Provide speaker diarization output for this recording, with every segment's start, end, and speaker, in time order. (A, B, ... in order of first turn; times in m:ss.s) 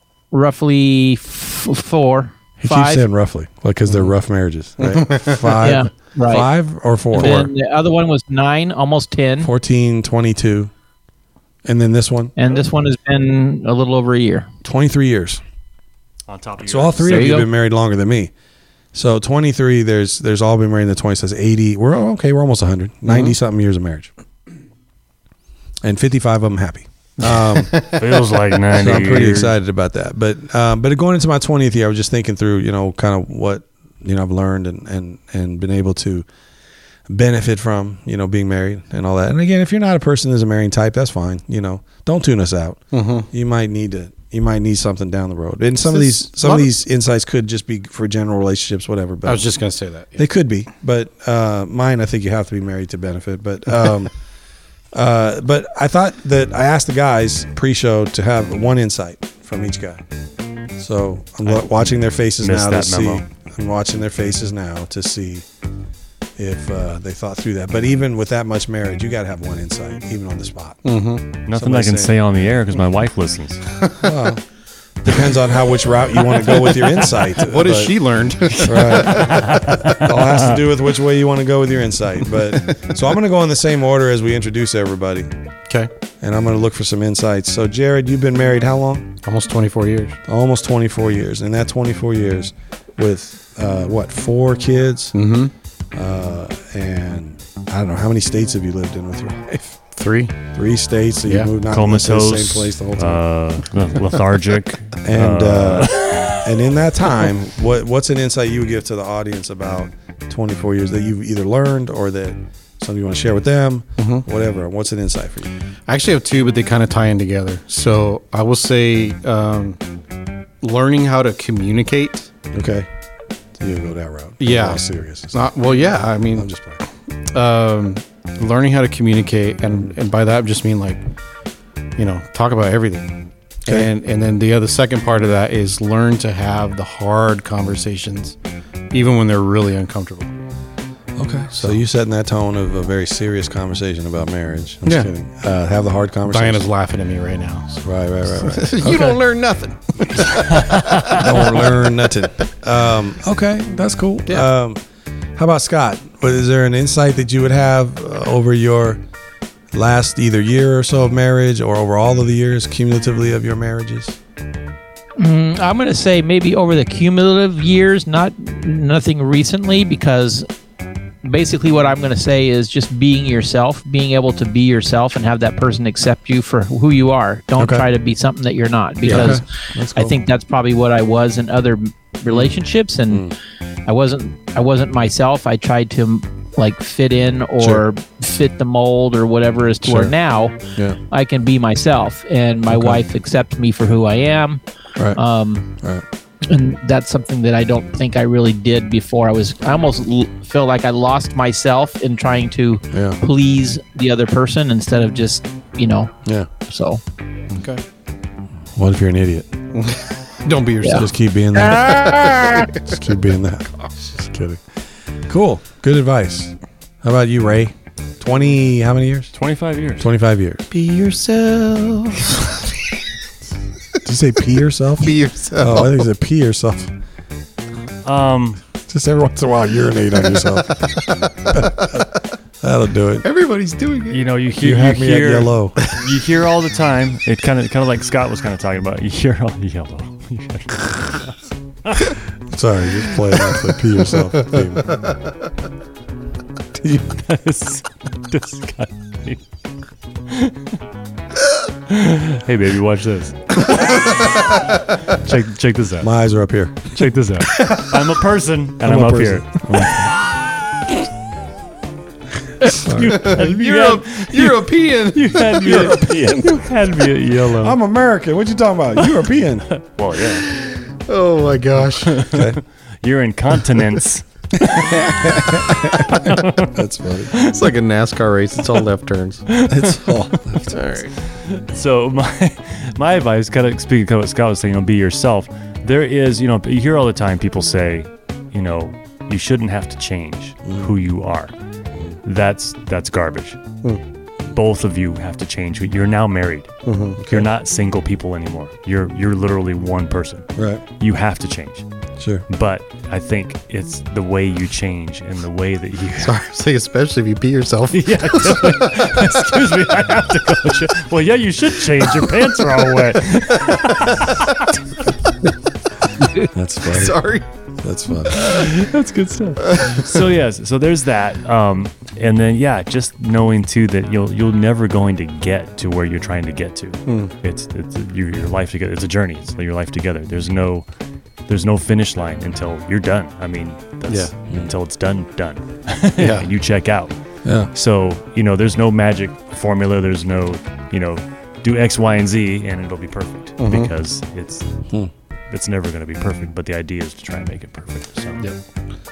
0:00.3-0:03.0 A
0:02.6-0:07.5 B
0:03.9-0:04.1 C
0:04.8-0:05.6 C
0:05.6-0:06.5 A
0:07.1-0:09.5 A
0:09.4-0:10.7 B
0:11.6-0:12.3 B
0:12.4-0:14.5 A
0:14.6-0:15.4 B
0:16.3-0:17.5 D
0:16.6-0:18.3 B
0:17.0-0:17.5 A
0:18.9-0:24.1 B
0:23.1-0:23.4 C
0:25.8-0:27.8 B
0:27.3-0:28.0 C
0:27.8-0:29.6 D
0:28.7-0:36.3 B
0:37.1-0:49.5 B
0:42.9-0:43.3 C
0:45.8-0:46.7 C
0:49.2-0:50.2 C
0:50.2-0:54.1 B
0:54.9-1:00.0 B
1:00.8-1:05.5 B
1:01.4-1:03.2 D
1:06.4-1:10.9 B
1:10.8-1:11.2 C
1:11.5-1:13.6 D
1:11.5-1:12.2 B
1:14.0-1:14.4 B
1:15.0-1:18.0 B
1:17.3-1:19.5 C
1:18.6-1:25.3 B
1:18.7-1:20.6 D
1:22.6-1:23.0 C
1:26.2-1:29.2 B
1:29.2-1:30.2 C
1:30.3-1:35.2 B
1:35.1-1:35.5 C
1:35.9-1:39.8 B
1:39.9-1:40.4 C
1:40.5-1:43.2 B
1:41.3-1:41.5 C
1:41.7-1:46.4 D
1:45.0-1:55.5 B
1:54.0-1:54.2 C
1:55.9-1:59.8 C
2:00.6-2:02.3 C
2:02.5-2:02.9 B
2:03.6-2:06.8 B
2:04.4-2:06.5 C
2:07.3-2:11.0 C
2:12.0-2:18.4 C
2:18.9-2:20.3 C
2:21.2-2:26.6 B
2:21.5-2:21.8 C
2:24.8-2:25.1 C
2:26.3-2:31.9 C
2:27.8-2:29.2 B
2:30.6-2:31.2 D
2:31.1-2:34.8 B
2:35.4-2:39.0 B
2:39.7-2:44.2 B
2:45.2-2:50.5 A
2:51.2-3:03.3 A
2:57.6-2:57.9 B
2:59.0-3:00.2 B
2:59.0-2:59.4 C
3:02.3-3:02.5 B
3:03.1-3:03.4 B
3:03.9-3:10.6 A
3:07.6-3:07.8 B
3:09.8-3:10.1 C
3:11.1-3:14.6 A
3:12.7-3:13.0 B
3:15.1-3:15.7 A
3:16.5-3:27.0 A
3:22.9-3:23.2 B
3:27.5-3:27.8 C
3:28.8-3:29.5 B
3:29.7-3:31.1 C
3:30.9-3:34.6 B
3:31.8-3:32.7 A
3:35.3-3:39.3 B
3:39.4-3:40.1 D
3:40.0-3:40.6 B
3:40.7-3:42.7 C
3:44.0-3:46.9 B
3:45.0-3:46.0 C
3:48.0-3:48.6 D
3:48.9-3:52.0 B
3:50.7-3:52.0 C
3:52.6-3:53.2 B
3:53.2-3:54.2 C
3:54.1-4:02.2 D
3:54.6-3:55.8 B
4:02.5-4:05.0 B
4:06.8-4:07.2 B
4:07.1-4:09.4 D
4:10.3-4:10.7 D
4:11.9-4:14.2 D
4:15.0-4:16.1 D
4:16.0-4:17.0 B
4:16.9-4:20.1 D
4:17.6-4:17.9 C
4:18.9-4:20.1 B
4:22.6-4:27.8 D
4:22.6-4:23.2 B
4:23.0-4:25.5 C
4:25.5-4:26.7 B
4:27.6-4:29.7 B
4:29.7-4:30.5 D
4:30.6-4:32.2 C
4:32.1-4:35.0 D
4:32.3-4:32.6 B
4:34.6-4:37.3 B
4:35.9-4:36.8 D
4:37.3-4:37.6 D
4:37.4-4:39.5 C
4:39.5-4:40.4 D
4:39.7-4:40.8 B
4:40.7-4:41.1 C
4:41.4-4:51.5 D
4:52.2-4:53.6 D
4:54.5-5:01.9 D
4:56.8-4:57.2 C
4:57.2-4:57.5 B
5:00.6-5:00.8 B
5:02.2-5:02.4 B
5:02.5-5:06.4 D
5:06.2-5:09.2 C
5:07.9-5:14.7 D
5:16.5-5:17.2 B
5:16.9-5:17.4 C
5:17.8-5:18.6 B
5:18.3-5:30.8 D
5:19.6-5:20.1 C
5:27.1-5:27.3 C
5:31.5-5:37.1 D
5:34.1-5:34.3 C
5:36.2-5:36.5 C
5:37.4-5:37.7 B
5:37.7-5:44.7 D
5:43.6-5:43.9 C
5:45.5-5:48.4 D